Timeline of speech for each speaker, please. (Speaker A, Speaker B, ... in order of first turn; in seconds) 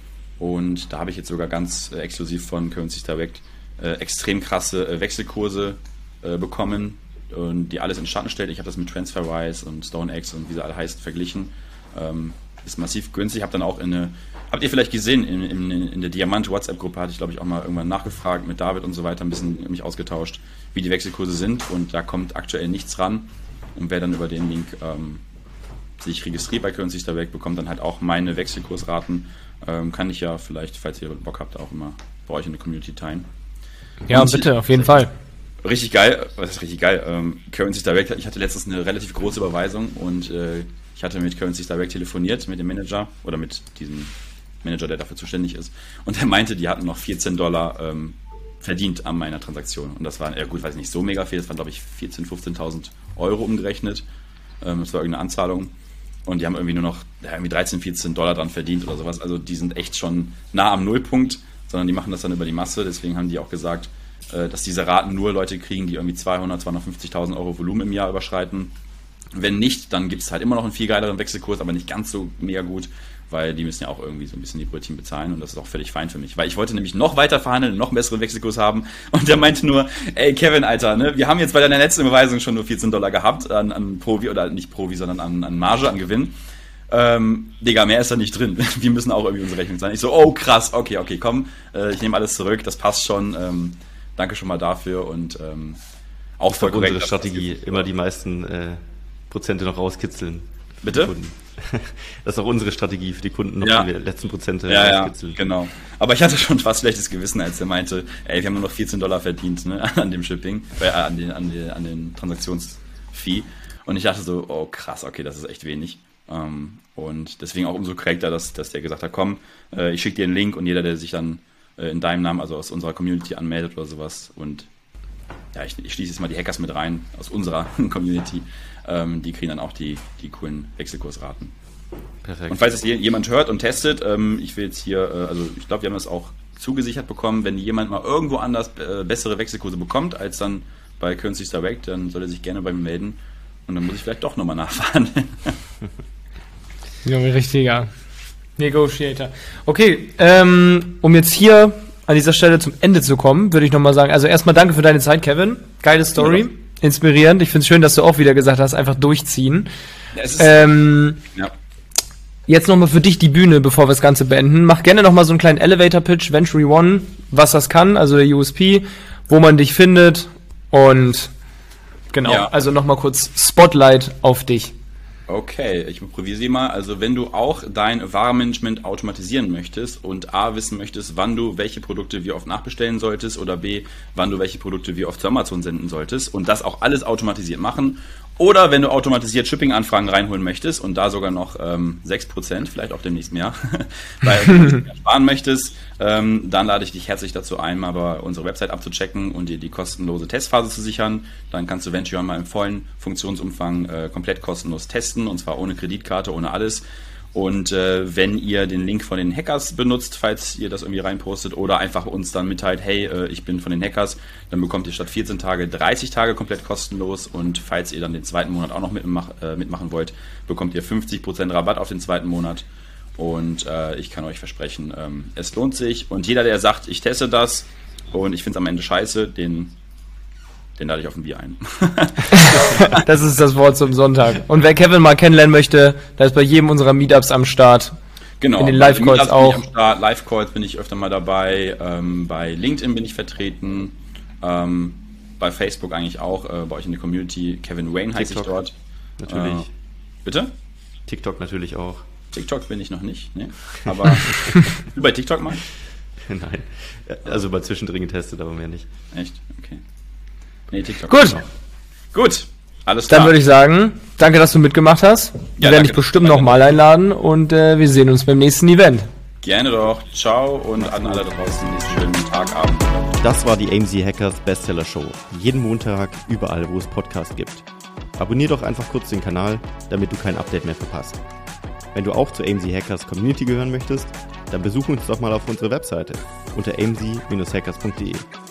Speaker A: 0.4-25.2, 26.0-33.3, 34.1-35.0, 35.6-44.1, 44.6-54.0, 54.6-55.7, 56.2-68.7, 69.3-86.3, 86.9-95.8, 96.4-97.8, 100.8-101.1, 103.6-103.9, 104.7-124.7, 125.5-131.5, 132.5-145.6, 156.2-156.4, 160.1-160.8, 172.2-172.5, 175.3-206.8, 207.3-222.7, 223.2-229.7, 230.8-233.0, 238.4-248.7, 249.3-249.7, 250.2-250.5, 252.3-255.6, 259.1-259.8, 260.7-261.4, 262.1-263.4, 265.6-266.6, 269.4-273.2
Speaker B: 34.1-35.1, 147.0-147.9, 148.6-159.7, 160.4-161.2, 162.5-171.3, 172.1-174.7, 232.3-237.9, 238.6-239.7, 261.1-261.4, 263.1-269.1
Speaker C: 96.5-105.4, 132.2-132.6, 248.1-248.5, 249.2-249.7, 251.1-252.1, 256.2-258.9, 270.8-271.2, 273.2-277.6, 278.2-281.2, 281.9-288.3